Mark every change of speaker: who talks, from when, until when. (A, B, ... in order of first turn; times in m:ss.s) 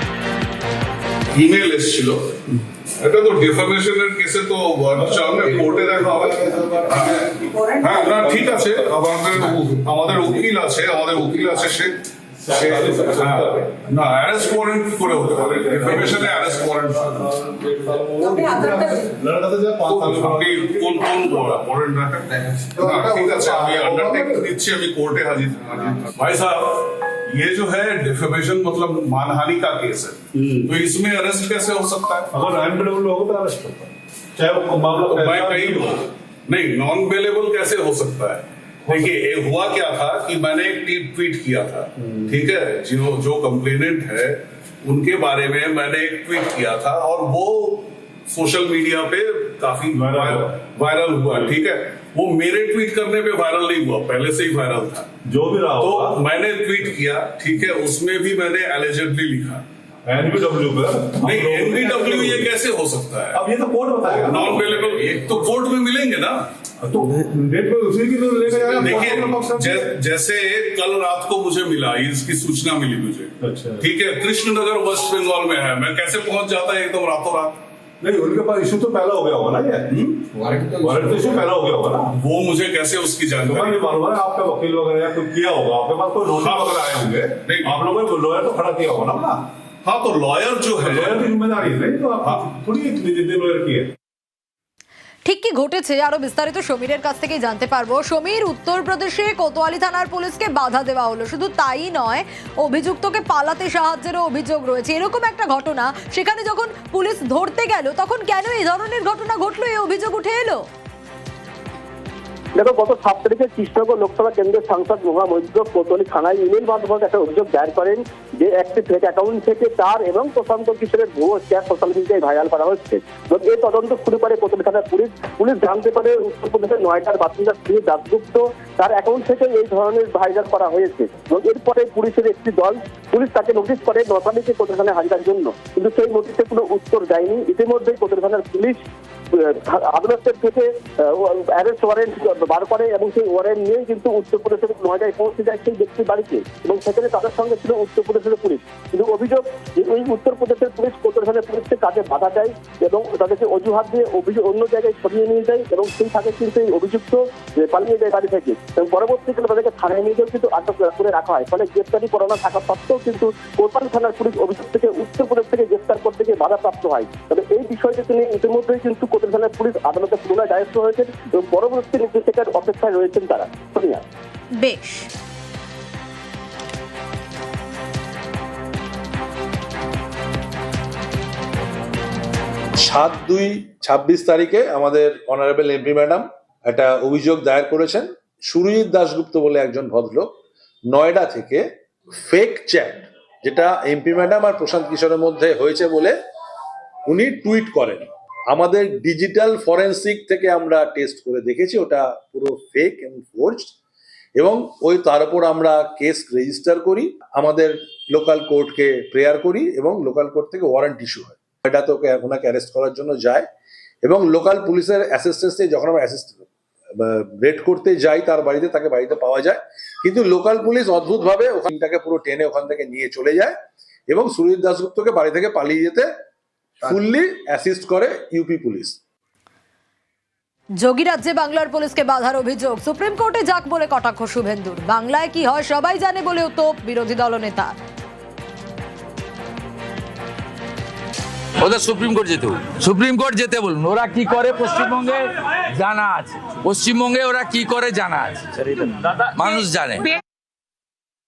0:01.4-0:02.4 A
0:03.0-0:12.0 A
0:05.1-0:06.3 B
0:08.2-0:08.6 B
0:12.4-0:13.7 B
0:12.7-0:17.5 A
0:14.4-0:16.6 B
0:17.4-0:21.6 B
0:19.8-0:32.3 A
0:22.7-0:24.5 B
0:30.3-0:30.7 B
0:32.3-0:36.0 B
0:35.0-0:55.1 A
0:38.9-0:39.2 B
0:42.0-0:42.4 B
0:49.9-0:50.6 B
0:55.2-0:56.2 B
0:55.7-0:59.6 A
1:00.0-1:02.5 B
1:01.2-1:03.4 A
1:03.3-1:05.5 B
1:04.1-1:06.4 A
1:06.8-1:09.9 B
1:08.8-1:17.6 A
1:13.4-1:13.8 B
1:18.0-1:20.0 B
1:20.7-1:22.2 B
1:22.2-1:24.0 A
1:23.4-1:29.4 B
1:26.4-1:27.8 A
1:29.8-1:31.3 A
1:30.8-1:33.9 B
1:35.2-1:50.7 C
1:52.6-2:18.8 D
2:19.4-2:54.0 D
2:54.5-2:55.1 C
3:02.8-3:10.3 E
3:10.9-3:16.2 E
3:17.1-3:23.7 E
3:24.4-3:33.4 E
3:34.0-3:36.5 E
3:37.0-3:43.5 E
3:44.1-3:46.1 E
3:46.8-3:49.0 E
3:50.8-3:57.8 C
4:01.6-4:10.1 F